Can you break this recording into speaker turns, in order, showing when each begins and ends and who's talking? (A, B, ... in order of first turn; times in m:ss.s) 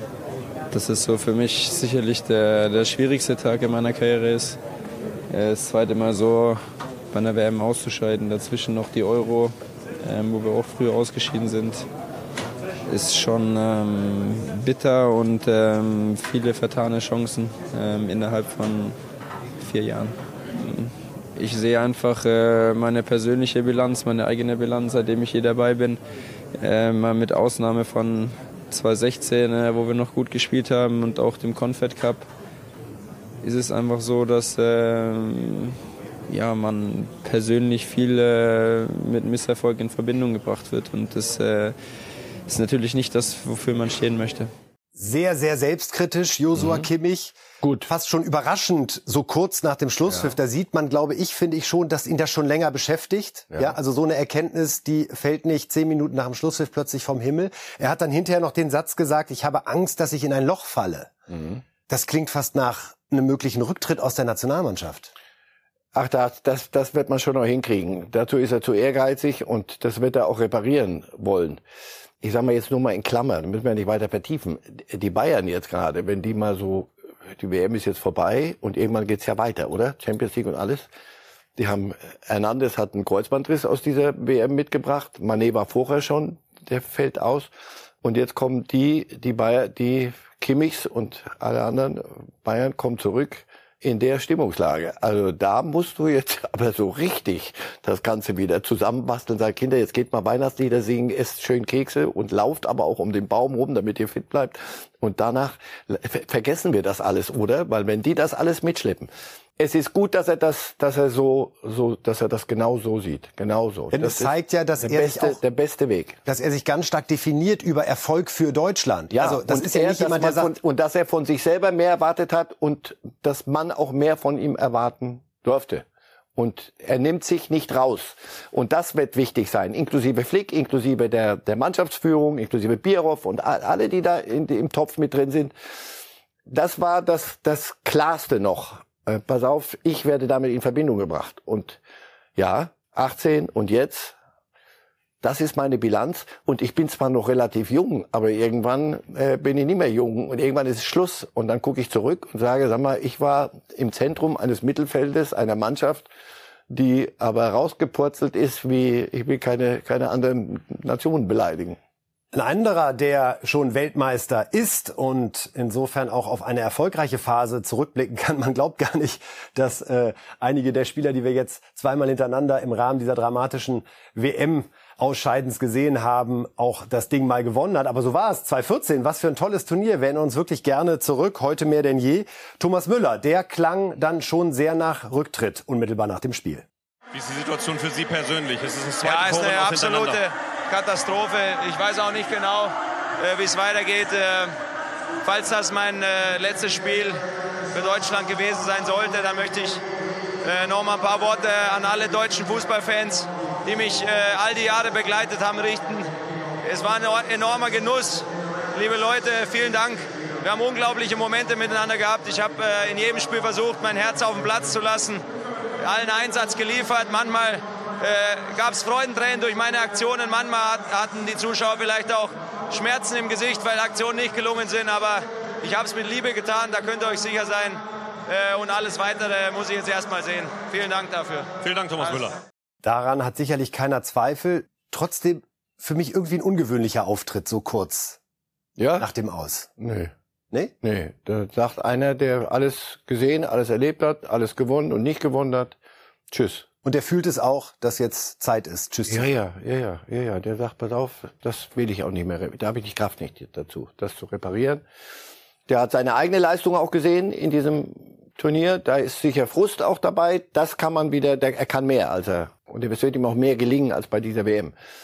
0:00.7-0:04.6 A
0:05.3-0:06.6 A
0:07.1-0:11.9 A
0:12.9-0:19.0 A
0:19.6-0:26.0 A
0:26.6-0:32.2 A
0:33.4-0:35.8 A
0:36.3-0:41.7 A
0:42.5-0:44.5 A
0:45.0-1:01.1 B
0:46.6-0:46.9 C
0:47.6-0:47.9 C
1:01.3-1:01.6 C
1:01.9-1:05.1 B
1:05.9-1:11.6 C
1:12.2-1:20.9 C
1:21.6-1:27.5 C
1:28.0-1:56.2 C
1:53.9-1:55.4 B
1:56.2-2:00.5 B
1:59.1-2:05.8 C
2:06.4-2:15.5 C
2:16.4-2:21.8 C
2:22.4-2:24.1 C
2:25.2-2:36.1 C
2:36.7-2:41.8 C
2:42.3-3:06.6 B
3:07.1-3:10.2 D
3:09.0-3:14.6 E
3:15.2-3:17.2 E
3:17.7-3:19.8 E
3:20.4-3:26.1 E
3:26.6-3:35.2 E
3:35.8-3:52.3 E
3:51.6-3:52.4 D
3:52.8-3:58.2 B
3:58.8-3:59.1 C
3:59.0-3:59.7 B
3:59.8-4:00.1 C
4:00.8-4:05.8 C
4:06.3-4:06.6 C
4:06.8-4:09.3 B
4:09.1-4:14.8 C
4:15.7-4:24.7 C